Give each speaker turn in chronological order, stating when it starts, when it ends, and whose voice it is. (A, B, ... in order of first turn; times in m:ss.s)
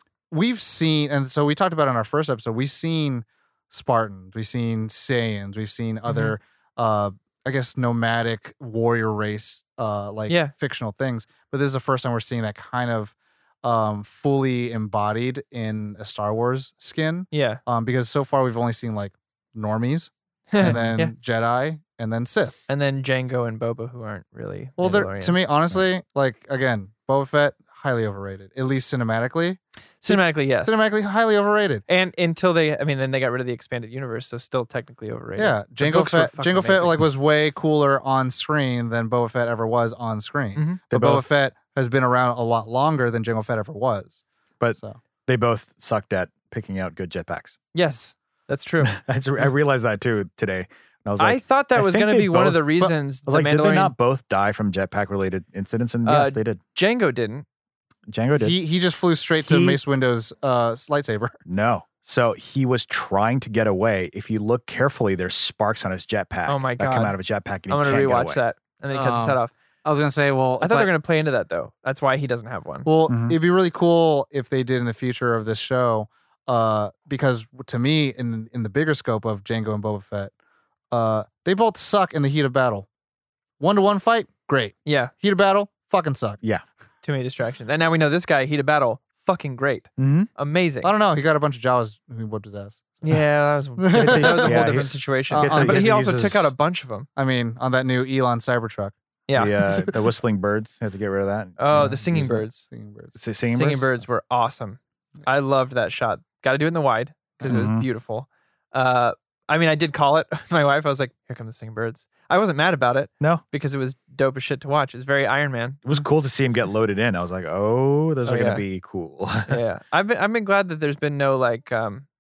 0:00.3-0:22.6 A
0:06.1-0:06.4 B
0:10.3-0:10.5 B
0:17.3-0:17.6 B
0:20.5-0:21.1 B
0:22.7-0:25.4 B
0:24.8-0:31.8 A
0:30.0-0:30.8 B
0:31.9-0:37.0 B
0:35.4-0:44.2 A
0:40.6-0:40.8 B
0:40.9-0:41.3 C
0:44.6-0:47.6 C
0:47.7-0:49.0 B
0:48.8-0:52.7 C
0:51.2-0:53.9 B
0:53.3-0:56.6 C
0:56.0-0:57.5 B
0:58.1-0:58.6 C
0:58.4-1:01.4 A
0:59.5-0:59.8 C
1:01.5-1:08.4 C
1:06.5-1:07.2 B
1:07.7-1:09.5 B
1:08.9-1:10.9 A
1:10.6-1:12.9 B
1:12.9-1:20.3 A
1:13.1-1:13.4 C
1:20.9-1:22.9 A
1:23.6-1:26.4 A
1:24.9-1:25.1 B
1:27.0-1:30.9 B
1:30.0-1:30.3 C
1:30.8-1:33.0 A
1:33.0-1:37.1 B
1:33.8-1:34.7 A
1:33.9-1:36.5 C
1:35.3-1:35.9 A
1:37.2-1:38.9 A
1:39.3-1:39.7 B
1:39.4-1:42.4 C
1:41.6-1:42.6 B
1:41.7-1:43.2 A
1:43.2-1:43.8 C
1:43.5-1:56.0 B
1:47.4-1:47.8 C
1:55.8-1:59.6 C
1:58.2-1:58.6 B
1:59.5-2:02.1 B